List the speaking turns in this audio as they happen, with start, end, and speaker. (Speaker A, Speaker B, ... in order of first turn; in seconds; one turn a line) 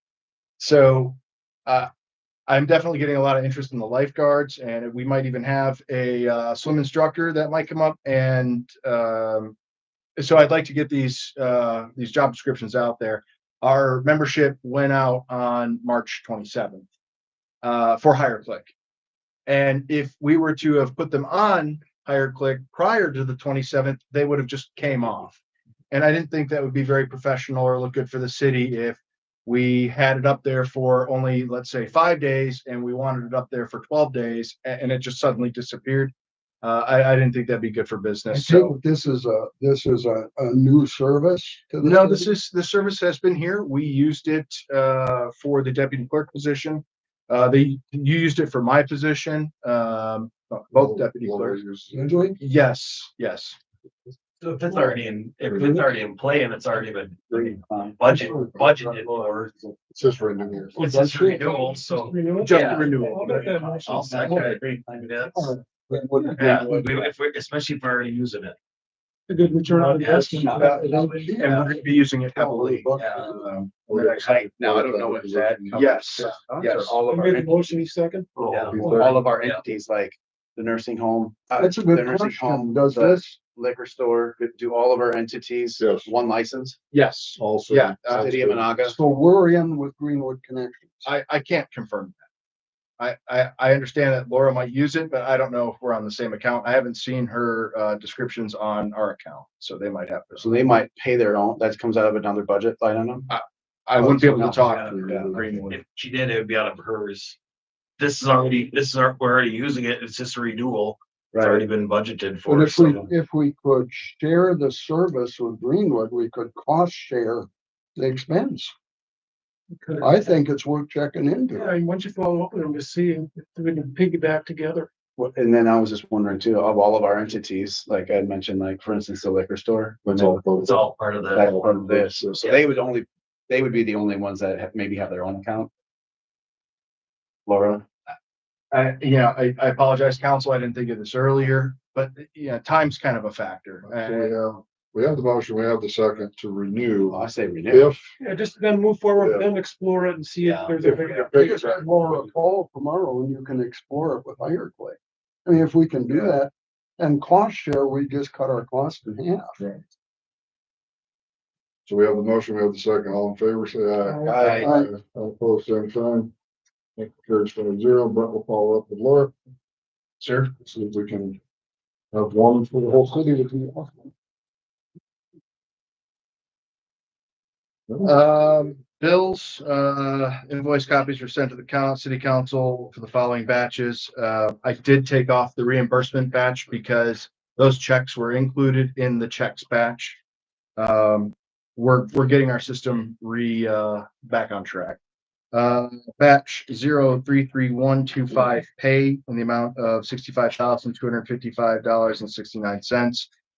Speaker A: 0.6-1.9
Speaker A: 2.5-9.5
Speaker A: 10.2-16.9
Speaker A: 17.6-18.7
Speaker A: 19.5-25.4
Speaker A: 25.9-38.7
Speaker B: 38.3-42.3
Speaker A: 41.8-51.6
Speaker C: 50.7-52.0
Speaker B: 51.9-52.4
Speaker A: 52.4-53.5
Speaker D: 54.4-59.5
Speaker E: 54.7-55.9
Speaker E: 57.3-59.7
Speaker B: 58.2-58.6
Speaker C: 59.9-60.8
Speaker D: 60.7-65.5
Speaker B: 60.8-61.7
Speaker F: 61.5-64.5
Speaker A: 62.4-63.4
Speaker E: 64.0-65.1
Speaker B: 65.3-67.1
Speaker F: 66.2-66.5
Speaker D: 66.3-68.5
Speaker F: 69.3-71.0
Speaker D: 69.8-71.3
Speaker B: 70.1-73.5
Speaker A: 71.4-74.3
Speaker D: 73.0-73.2
Speaker C: 73.8-76.3
Speaker E: 74.0-77.8
Speaker A: 75.7-76.9
Speaker D: 76.6-76.9
Speaker F: 77.0-79.2
Speaker D: 78.4-79.6
Speaker E: 78.5-86.8
Speaker C: 78.7-79.2
Speaker B: 81.5-83.4
Speaker C: 85.8-86.1
Speaker A: 86.9-88.3
Speaker C: 87.4-88.7
Speaker E: 88.1-89.0
Speaker B: 88.8-91.0
Speaker A: 91.0-92.2
Speaker A: 93.0-100.6
Speaker E: 100.4-103.3
Speaker A: 103.3-105.8
Speaker C: 104.0-105.5
Speaker E: 104.2-105.3
Speaker D: 104.6-107.4
Speaker D: 108.0-113.0
Speaker A: 111.4-111.6
Speaker B: 112.4-118.7
Speaker F: 119.8-120.2
Speaker B: 120.0-121.7
Speaker F: 121.5-124.9
Speaker E: 125.2-130.5
Speaker C: 130.1-130.8
Speaker D: 130.5-131.6
Speaker E: 131.3-135.7
Speaker C: 131.3-132.5
Speaker E: 137.4-137.8
Speaker A: 138.7-144.3
Speaker C: 143.9-148.1
Speaker E: 147.1-147.9
Speaker F: 148.2-151.5
Speaker C: 149.2-149.5
Speaker D: 150.4-151.2
Speaker C: 150.8-151.9
Speaker B: 151.3-159.6
Speaker C: 161.8-166.3
Speaker F: 164.0-164.5
Speaker E: 164.2-164.7
Speaker B: 164.6-164.9
Speaker C: 167.0-169.3
Speaker C: 170.2-171.4
Speaker C: 172.1-174.1
Speaker A: 178.0-190.2
Speaker A: 190.8-195.0
Speaker A: 195.5-203.3